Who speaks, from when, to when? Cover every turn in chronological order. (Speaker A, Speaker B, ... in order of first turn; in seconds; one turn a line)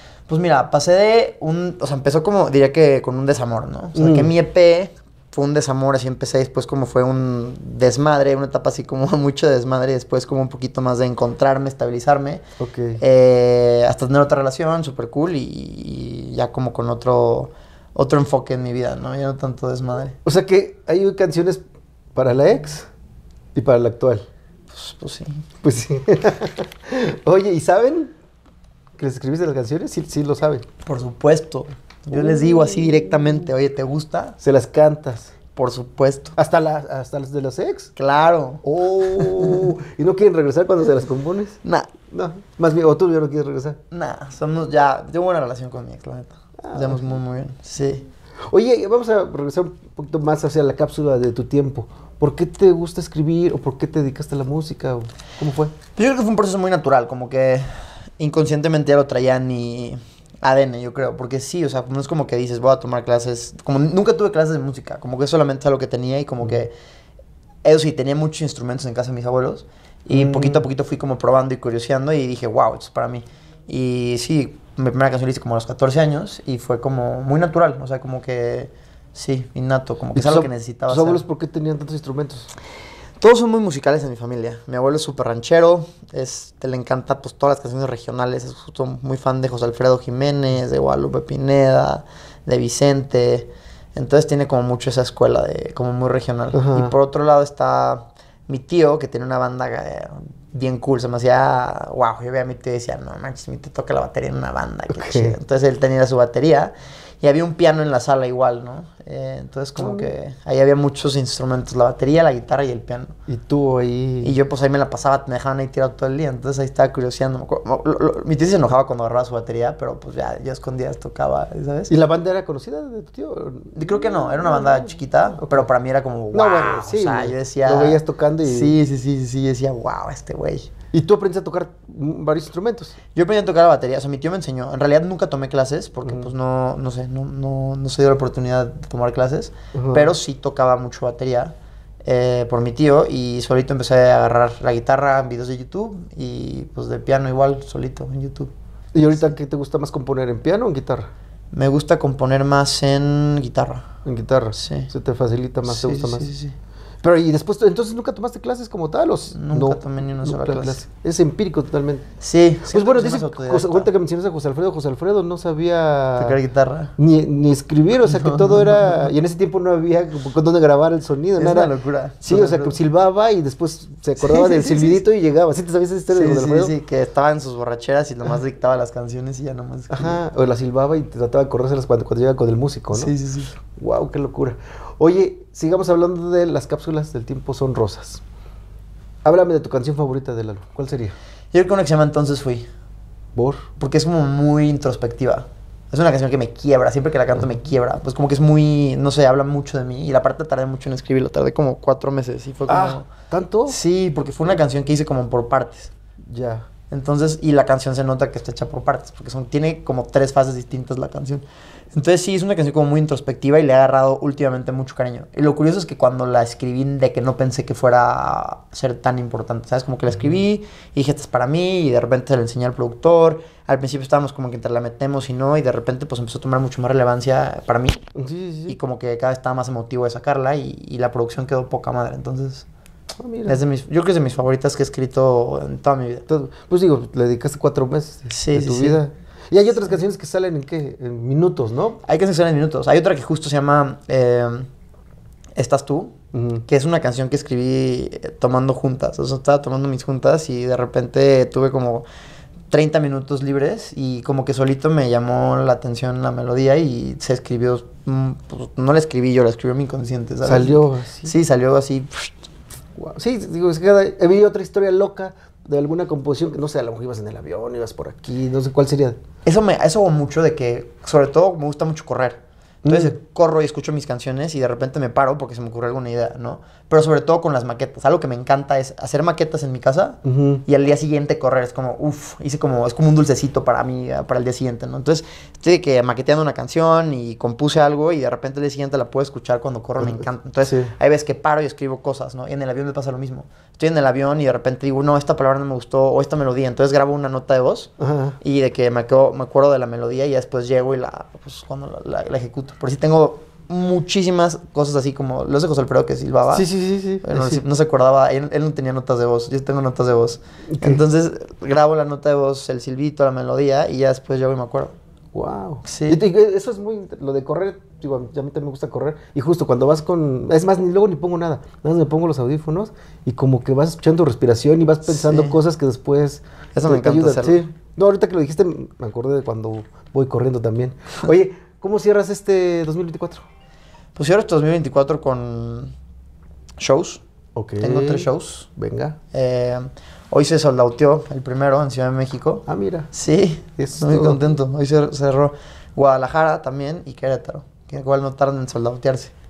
Speaker A: 0.3-12.4
Speaker B: 4.0-4.3
Speaker B: 12.6-13.0
Speaker A: 13.0-20.2
Speaker B: 20.2-21.6
Speaker B: 22.1-22.9
Speaker B: 23.6-24.3
Speaker A: 24.7-25.4
Speaker B: 25.6-28.1
Speaker B: 29.0-30.7
Speaker A: 30.9-34.4
Speaker B: 34.4-35.3
Speaker A: 35.6-36.4
Speaker B: 36.4-37.9
Speaker A: 38.0-39.7
Speaker B: 38.6-41.6
Speaker A: 41.6-41.9
Speaker B: 42.1-43.8
Speaker A: 43.9-48.1
Speaker B: 46.6-47.1
Speaker B: 48.5-55.7
Speaker A: 56.0-57.7
Speaker A: 58.2-66.7
Speaker A: 67.6-81.2
Speaker B: 70.1-70.6
Speaker B: 80.1-82.5
Speaker A: 83.2-113.1
Speaker B: 96.5-96.9
Speaker B: 104.9-105.4
Speaker B: 109.8-110.1
Speaker B: 113.3-114.3
Speaker A: 114.2-121.9
Speaker B: 121.9-124.9
Speaker A: 123.8-130.7
Speaker B: 125.4-125.7
Speaker B: 126.3-128.7
Speaker B: 130.9-133.0
Speaker A: 133.2-141.5
Speaker B: 139.7-140.1
Speaker A: 142.1-148.5
Speaker B: 148.9-151.1
Speaker A: 151.5-153.8
Speaker B: 154.0-156.3
Speaker A: 154.6-154.9
Speaker A: 155.7-156.6
Speaker B: 157.0-162.1
Speaker A: 159.3-160.8
Speaker A: 162.2-163.9
Speaker B: 162.7-166.4
Speaker A: 166.2-166.9
Speaker B: 167.0-171.7
Speaker A: 168.1-169.1
Speaker A: 171.4-172.8
Speaker B: 172.2-176.7
Speaker A: 174.2-175.0
Speaker A: 176.1-180.2
Speaker B: 179.9-183.1
Speaker A: 182.9-183.6
Speaker B: 183.8-188.2
Speaker B: 189.2-191.2
Speaker A: 191.5-192.7
Speaker B: 193.3-193.7
Speaker A: 193.8-203.1
Speaker B: 202.7-203.8
Speaker A: 203.7-205.9
Speaker B: 206.3-206.7
Speaker A: 206.9-228.0
Speaker B: 228.2-228.8
Speaker A: 228.7-232.7
Speaker B: 233.2-233.6
Speaker A: 233.5-236.2
Speaker B: 236.3-242.0
Speaker A: 238.3-239.0
Speaker A: 242.0-244.7
Speaker A: 245.6-246.2
Speaker B: 246.3-246.7
Speaker A: 246.7-252.1
Speaker A: 252.7-262.3
Speaker B: 260.4-261.3
Speaker B: 263.0-269.2
Speaker A: 269.4-306.7
Speaker B: 272.9-273.2
Speaker B: 280.2-280.6
Speaker B: 290.0-290.9
Speaker B: 298.0-298.4
Speaker B: 306.5-307.6
Speaker A: 307.2-314.9
Speaker B: 310.7-311.0
Speaker B: 315.3-333.4
Speaker A: 315.9-316.2
Speaker A: 325.1-325.6
Speaker A: 326.8-327.6
Speaker A: 334.1-335.9
Speaker A: 336.8-337.2
Speaker B: 337.6-339.2
Speaker A: 337.8-338.7
Speaker A: 339.3-349.3
Speaker B: 342.7-343.1
Speaker B: 343.8-344.5